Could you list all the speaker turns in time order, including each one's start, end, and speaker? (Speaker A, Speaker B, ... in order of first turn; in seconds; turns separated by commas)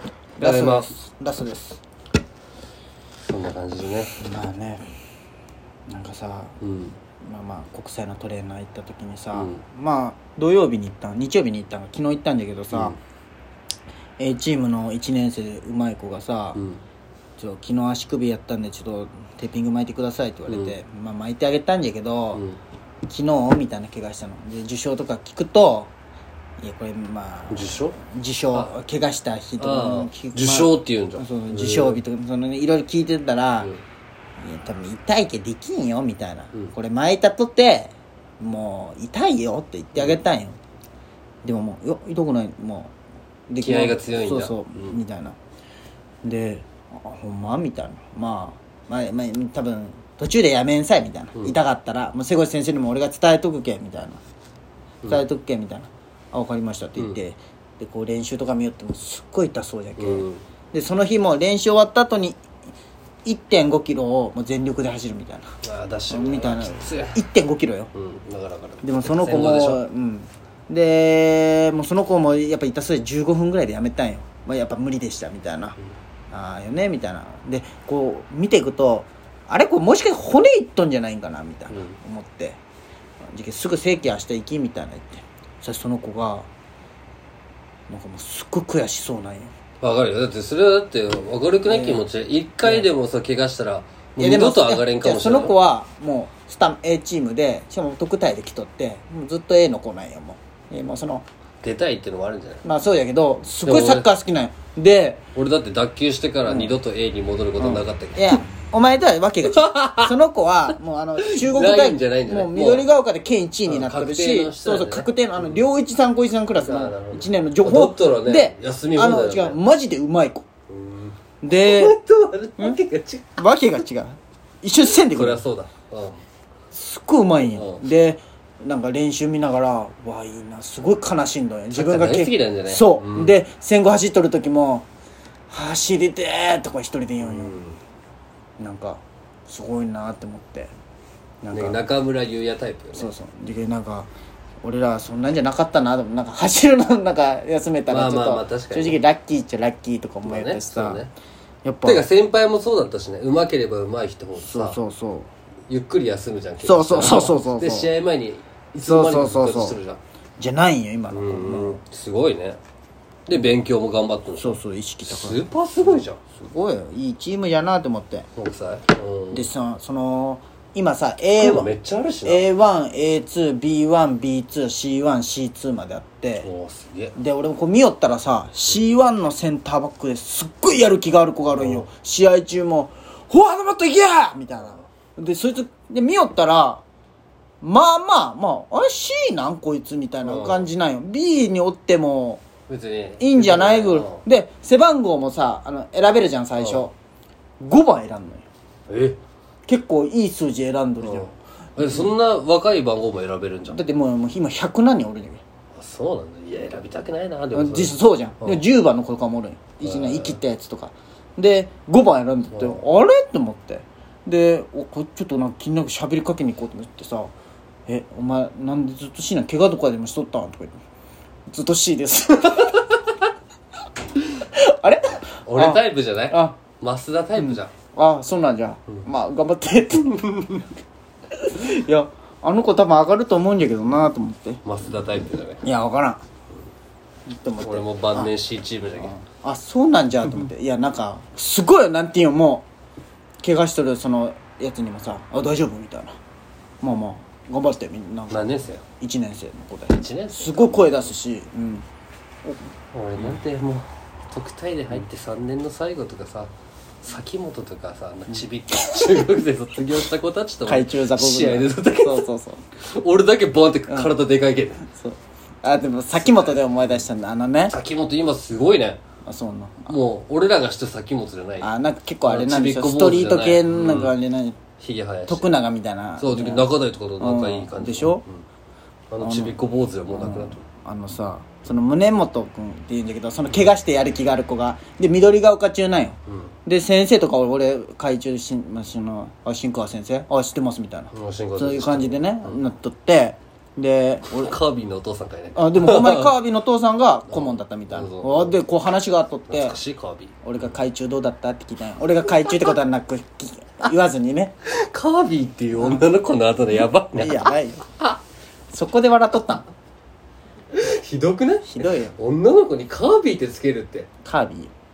Speaker A: 0.3-1.8, Speaker B: 0.4-0.9, Speaker B: 3.3-4.1, Speaker A: 4.2-4.8, Speaker A: 5.9-6.6, Speaker B: 6.6-7.0, Speaker A: 7.2-13.0, Speaker B: 9.3-9.6, Speaker B: 12.7-13.0, Speaker A: 14.2-16.6, Speaker B: 16.5-16.8, Speaker A: 17.4-22.4, Speaker B: 20.5-20.7, Speaker B: 22.3-22.6, Speaker A: 23.1-25.9, Speaker A: 26.6-33.7, Speaker B: 27.5-28.0, Speaker B: 29.6-32.0, Speaker A: 34.4-40.6, Speaker A: 41.4-42.9, Speaker A: 43.5-45.4, Speaker B: 43.6-45.0, Speaker A: 46.2-54.2, Speaker A: 55.0-62.4, Speaker B: 60.0-60.4, Speaker A: 63.2-65.5, Speaker B: 65.6-67.2, Speaker A: 66.1-67.9, Speaker B: 67.9-69.8, Speaker A: 68.8-75.8, Speaker A: 76.3-82.6, Speaker A: 83.3-86.5, Speaker A: 87.9-89.5, Speaker B: 89.8-95.5, Speaker A: 91.7-92.0, Speaker A: 94.2-101.2, Speaker B: 101.6-102.6, Speaker A: 102.6-105.2, Speaker B: 103.6-104.1, Speaker B: 105.3-108.4, Speaker A: 106.5-106.7, Speaker A: 107.6-120.4, Speaker B: 109.5-110.2, Speaker B: 111.2-112.9, Speaker B: 113.7-115.6, Speaker B: 116.5-119.6, Speaker B: 120.7-123.5, Speaker A: 121.4-122.0, Speaker A: 123.4-125.4, Speaker B: 124.9-126.2, Speaker A: 126.7-134.9, Speaker B: 127.4-127.9, Speaker B: 131.7-133.4, Speaker A: 135.5-137.6, Speaker B: 137.2-137.8, Speaker A: 138.6-140.7, Speaker A: 141.4-141.8, Speaker B: 141.5-143.1, Speaker A: 142.9-144.1, Speaker A: 144.6-151.0, Speaker B: 147.9-149.0, Speaker B: 150.2-151.1, Speaker A: 151.6-152.1, Speaker B: 151.8-154.8, Speaker A: 154.4-155.3, Speaker B: 155.7-160.0, Speaker A: 156.6-157.9, Speaker A: 158.8-159.8, Speaker A: 160.4-161.8, Speaker B: 161.1-162.6, Speaker B: 163.3-166.2, Speaker A: 164.3-165.4, Speaker A: 166.2-168.3, Speaker B: 168.3-169.5, Speaker A: 169.3-171.7, Speaker B: 171.4-172.5, Speaker A: 172.2-176.5, Speaker B: 176.4-177.2, Speaker A: 177.2-186.8, Speaker B: 181.5-181.9, Speaker A: 187.6-192.4, Speaker B: 190.2-190.7, Speaker B: 192.7-194.2, Speaker A: 193.2-196.9, Speaker B: 196.6-196.9, Speaker A: 197.6-198.5, Speaker B: 198.9-199.2, Speaker A: 199.7-202.1, Speaker B: 201.0-203.8, Speaker A: 203.7-205.4, Speaker B: 205.7-208.6, Speaker A: 207.5-217.3, Speaker B: 209.8-210.4, Speaker B: 212.5-212.8, Speaker A: 217.9-220.8, Speaker A: 221.5-222.9, Speaker A: 224.2-226.6, Speaker B: 225.4-227.7, Speaker A: 227.3-230.6, Speaker B: 230.2-230.6, Speaker A: 231.4-234.6, Speaker B: 234.6-235.6, Speaker A: 235.6-236.2, Speaker A: 237.3-238.3, Speaker B: 237.6-239.1, Speaker A: 239.0-242.7, Speaker A: 243.4-246.2, Speaker A: 246.8-251.8, Speaker B: 248.3-248.8, Speaker B: 249.9-251.1, Speaker B: 252.9-264.8, Speaker A: 260.7-262.6, Speaker A: 264.9-267.8, Speaker B: 266.2-266.7, Speaker B: 267.7-269.0, Speaker A: 269.2-269.9, Speaker B: 269.9-271.7, Speaker A: 271.6-274.6, Speaker B: 272.2-274.2, Speaker B: 274.8-275.5, Speaker A: 275.3-278.2, Speaker B: 276.2-278.4, Speaker B: 279.1-280.6, Speaker A: 279.2-279.6, Speaker A: 280.1-294.6, Speaker B: 291.1-292.6, Speaker B: 294.3-296.3, Speaker A: 295.5-299.8, Speaker B: 297.3-298.6, Speaker B: 299.5-300.7, Speaker A: 300.4-304.5, Speaker B: 302.4-302.8, Speaker B: 304.7-307.5, Speaker A: 305.8-306.1, Speaker A: 307.1-307.8, Speaker A: 308.7-309.6, Speaker B: 310.7-314.1, Speaker A: 311.6-312.1, Speaker A: 314.2-314.7